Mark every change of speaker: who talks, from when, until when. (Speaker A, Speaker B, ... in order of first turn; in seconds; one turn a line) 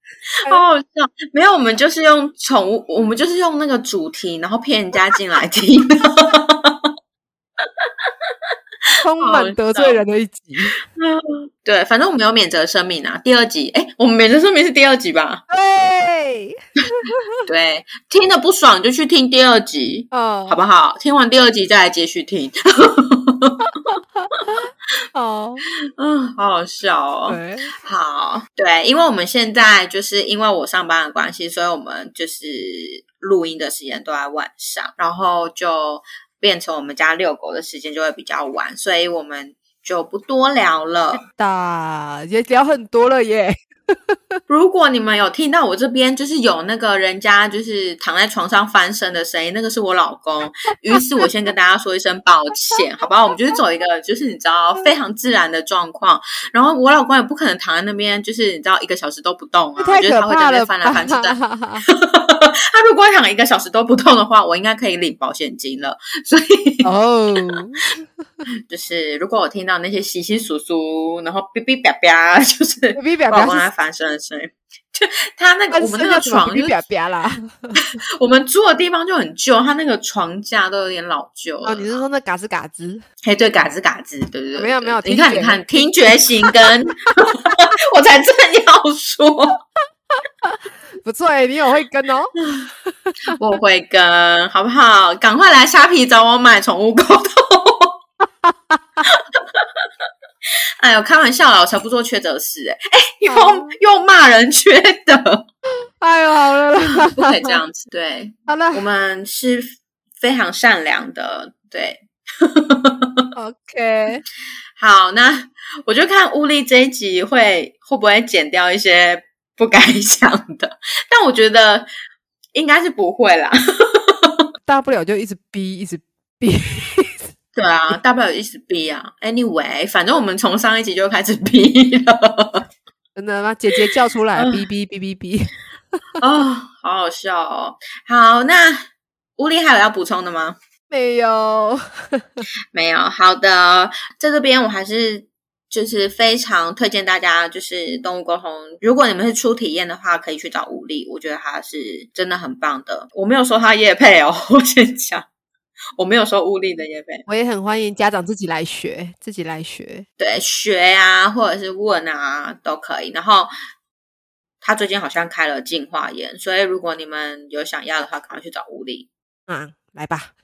Speaker A: 0.4-6.9
Speaker A: 7.6-8.5
Speaker B: 9.0-10.8
Speaker A: 9.2-10.0
Speaker A: 10.9-15.4
Speaker B: 15.5-17.4
Speaker A: 17.5-23.6
Speaker B: 20.1-20.6
Speaker B: 23.9-25.6
Speaker A: 26.0-41.2
Speaker B: 27.2-27.7
Speaker B: 41.1-44.4
Speaker A: 44.5-66.9
Speaker B: 59.8-61.9
Speaker B: 66.8-68.5
Speaker A: 68.7-76.7
Speaker B: 72.9-73.7
Speaker B: 75.7-77.8
Speaker A: 78.2-81.9
Speaker B: 81.6-83.0
Speaker A: 83.2-89.6
Speaker B: 84.5-86.6
Speaker B: 90.4-93.2
Speaker A: 93.3-98.0
Speaker B: 98.4-99.0
Speaker A: 99.0-99.8
Speaker A: 100.8-105.4
Speaker B: 103.3-103.8
Speaker B: 106.0-107.6
Speaker A: 107.0-113.3
Speaker B: 108.5-108.8
Speaker B: 113.3-114.2
Speaker A: 114.8-121.9
Speaker A: 122.5-124.5
Speaker B: 124.6-127.3
Speaker A: 127.5-132.6
Speaker B: 133.2-135.6
Speaker A: 134.3-134.6
Speaker A: 136.2-140.6
Speaker B: 140.9-142.4
Speaker A: 142.7-155.2
Speaker A: 156.0-157.2
Speaker B: 157.3-160.1
Speaker A: 160.2-163.5
Speaker A: 164.6-169.1
Speaker B: 169.5-170.3